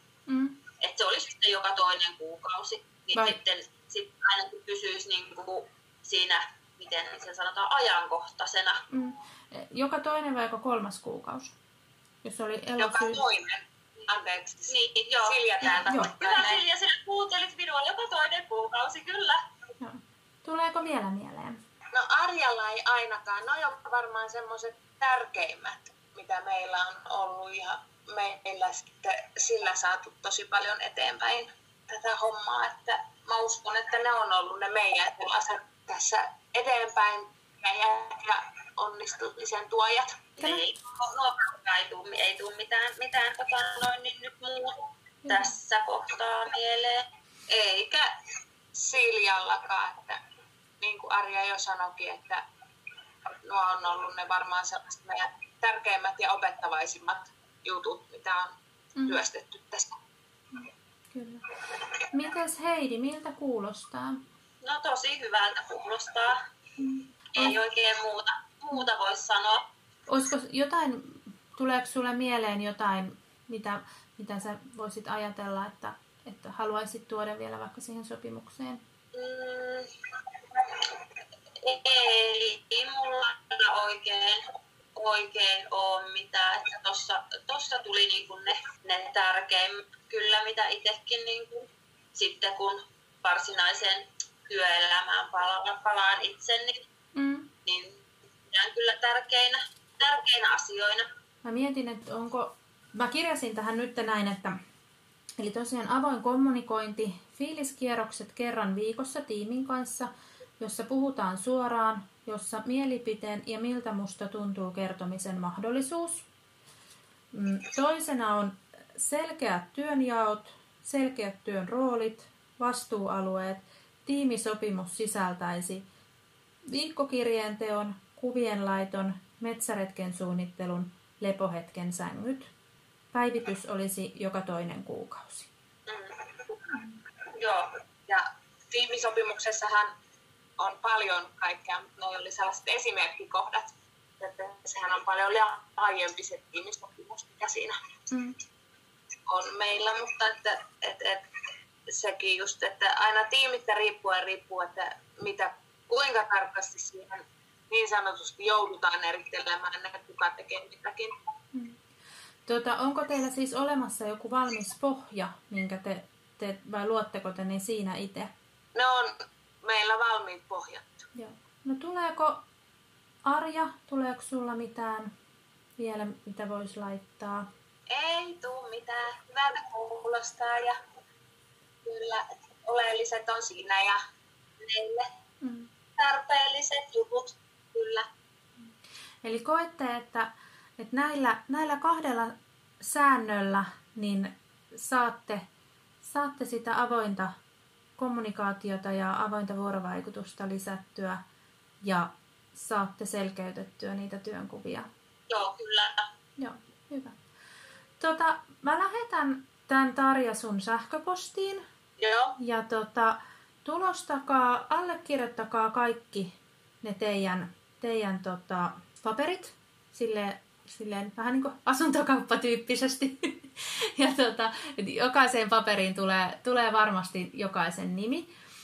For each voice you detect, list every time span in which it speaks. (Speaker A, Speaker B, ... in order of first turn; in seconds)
Speaker A: 0.3-0.6, 8.9-11.6, 12.2-13.2, 19.8-21.6, 45.2-45.5, 60.5-61.4, 62.1-64.2, 66.8-67.5, 70.1-78.8, 97.1-97.5, 101.4-104.6, 105.4-116.2, 117.3-125.9, 126.7-132.5, 133.1-135.5, 148.1-148.3, 161.5-161.8, 162.4-168.3, 171.1-172.4, 173.2-175.1, 175.8-177.5, 185.4-185.7, 189.2-195.4, 196.0-197.3, 198.0-201.2, 201.8-204.9, 206.4-207.2, 208.0-211.6, 212.4-228.3
Speaker B: 0.8-8.8, 14.7-19.4, 40.4-47.0, 64.6-66.4, 67.3-69.6, 81.6-84.4, 84.9-96.8, 97.6-101.1, 137.4-137.7, 205.3-206.1
Speaker C: 12.8-16.6, 21.9-40.3, 47.5-48.0, 48.7-50.2, 50.8-52.4, 53.4-58.5, 59.0-60.0, 79.3-79.8, 138.1-139.9, 140.6-147.8, 149.3-151.2, 151.9-161.2, 168.7-171.0, 177.9-180.8, 181.8-184.0, 184.6-185.0, 186.0-188.0